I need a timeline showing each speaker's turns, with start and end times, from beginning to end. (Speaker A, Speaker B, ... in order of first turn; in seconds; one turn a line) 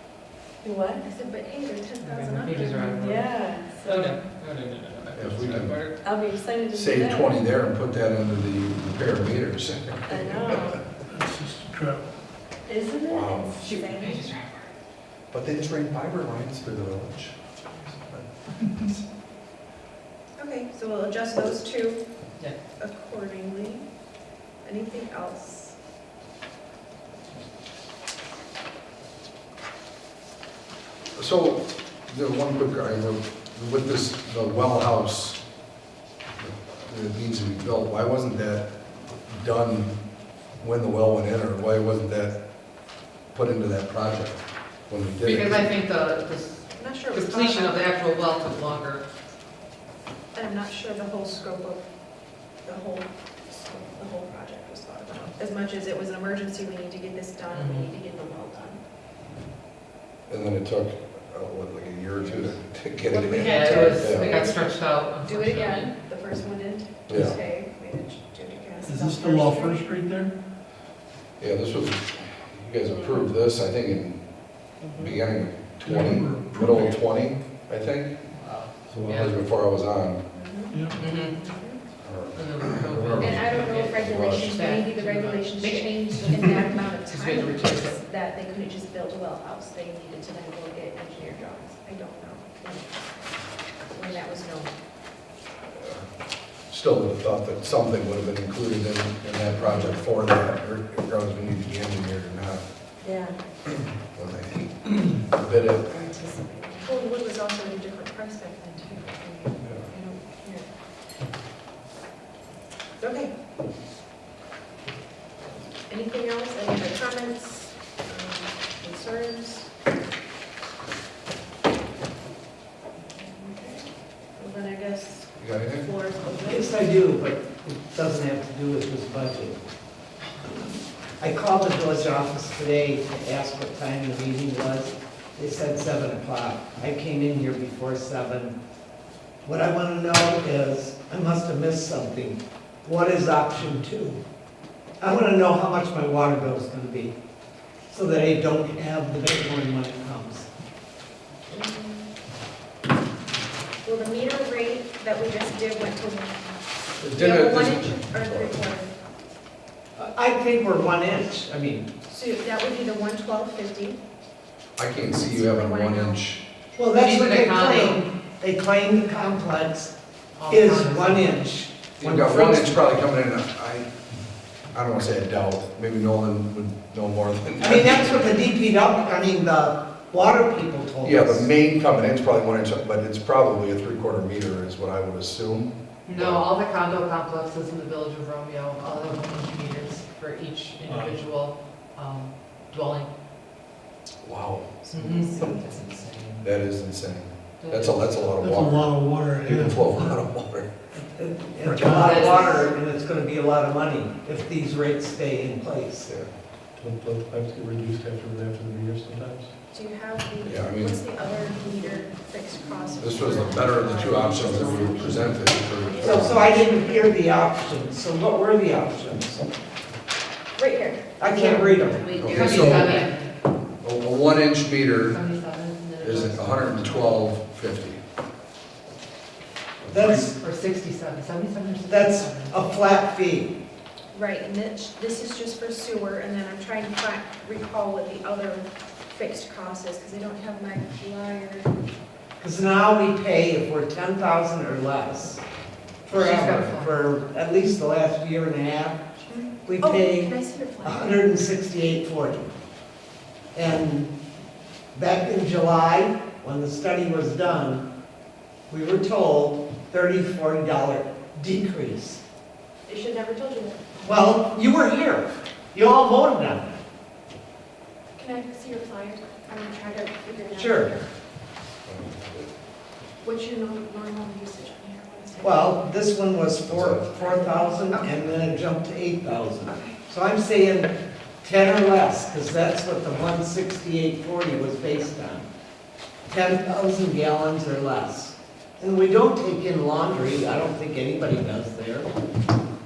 Speaker A: 0.6-1.1
Speaker B: 1.0-3.0
Speaker C: 2.0-3.3
Speaker A: 3.0-4.1
Speaker C: 3.8-5.9
Speaker D: 5.1-5.8
Speaker A: 6.0-7.3
Speaker D: 6.7-10.8
Speaker A: 10.1-10.8
Speaker E: 11.1-12.1
Speaker A: 12.7-14.1
Speaker D: 13.1-13.6
Speaker C: 13.6-14.7
Speaker B: 13.7-14.2
Speaker D: 15.3-19.0
Speaker B: 20.4-22.0
Speaker B: 22.8-23.8
Speaker B: 24.6-25.8
Speaker D: 31.2-35.4
Speaker D: 36.4-40.0
Speaker D: 40.6-42.4
Speaker D: 43.3-45.7
Speaker C: 45.2-49.0
Speaker B: 46.8-47.9
Speaker B: 50.3-51.9
Speaker B: 52.6-58.8
Speaker C: 57.5-57.9
Speaker D: 60.3-64.3
Speaker B: 62.2-62.5
Speaker B: 63.1-69.9
Speaker C: 63.4-65.9
Speaker D: 67.1-67.4
Speaker E: 68.8-70.3
Speaker D: 71.4-74.2
Speaker D: 74.8-78.2
Speaker E: 75.8-77.0
Speaker C: 78.4-79.4
Speaker D: 78.9-80.2
Speaker B: 80.3-81.8
Speaker E: 80.7-81.0
Speaker C: 81.0-81.3
Speaker D: 82.0-84.6
Speaker C: 82.3-88.0
Speaker B: 83.2-92.9
Speaker B: 93.9-94.7
Speaker D: 95.7-96.1
Speaker D: 96.7-102.6
Speaker B: 99.5-100.0
Speaker A: 103.0-103.4
Speaker D: 103.7-105.9
Speaker B: 105.9-110.7
Speaker A: 106.5-106.8
Speaker D: 109.6-109.9
Speaker B: 113.0-113.3
Speaker B: 115.9-119.7
Speaker B: 123.2-123.8
Speaker B: 124.4-126.8
Speaker D: 125.4-125.9
Speaker F: 126.3-129.6
Speaker F: 131.2-138.6
Speaker F: 139.4-144.2
Speaker F: 145.0-147.2
Speaker F: 147.9-150.5
Speaker B: 151.5-152.1
Speaker B: 153.8-158.9
Speaker D: 157.0-158.5
Speaker F: 160.0-161.9
Speaker B: 162.1-164.0
Speaker D: 164.8-166.4
Speaker B: 165.1-166.2
Speaker F: 166.8-169.9
Speaker C: 167.0-168.1
Speaker C: 170.4-171.3
Speaker F: 170.5-172.8
Speaker D: 172.0-173.9
Speaker D: 174.7-178.3
Speaker F: 177.6-181.5
Speaker D: 181.0-186.4
Speaker C: 186.1-193.1
Speaker D: 194.2-195.5
Speaker B: 194.8-195.9
Speaker C: 194.9-196.4
Speaker D: 196.4-200.7
Speaker C: 197.6-198.2
Speaker E: 198.4-199.8
Speaker F: 200.9-206.1
Speaker E: 201.6-202.2
Speaker C: 201.9-202.6
Speaker B: 202.2-202.6
Speaker D: 206.0-206.3
Speaker G: 206.8-209.5
Speaker B: 209.7-215.2
Speaker D: 210.4-211.0
Speaker D: 213.0-216.4
Speaker G: 214.5-215.0
Speaker B: 215.9-217.2
Speaker F: 216.0-219.4
Speaker B: 220.6-221.0
Speaker F: 221.2-222.9
Speaker C: 221.3-223.3
Speaker D: 222.2-223.0
Speaker D: 223.8-225.2
Speaker C: 225.1-227.2
Speaker D: 226.0-228.0
Speaker D: 229.8-230.3
Speaker F: 229.9-230.4
Speaker C: 230.3-232.6
Speaker F: 231.9-233.6
Speaker B: 234.1-241.7
Speaker F: 242.4-245.4
Speaker F: 246.1-249.0
Speaker C: 246.1-247.0
Speaker B: 249.3-251.1
Speaker F: 249.7-250.3
Speaker F: 250.8-252.5
Speaker F: 253.5-254.1
Speaker F: 254.9-257.9
Speaker F: 258.7-262.2
Speaker B: 262.9-263.8
Speaker F: 264.0-266.8
Speaker B: 268.2-271.1
Speaker F: 270.5-270.9
Speaker D: 271.9-272.5
Speaker B: 273.2-275.6
Speaker F: 275.4-285.5
Speaker D: 276.7-277.1
Speaker B: 277.1-278.1
Speaker F: 286.3-292.1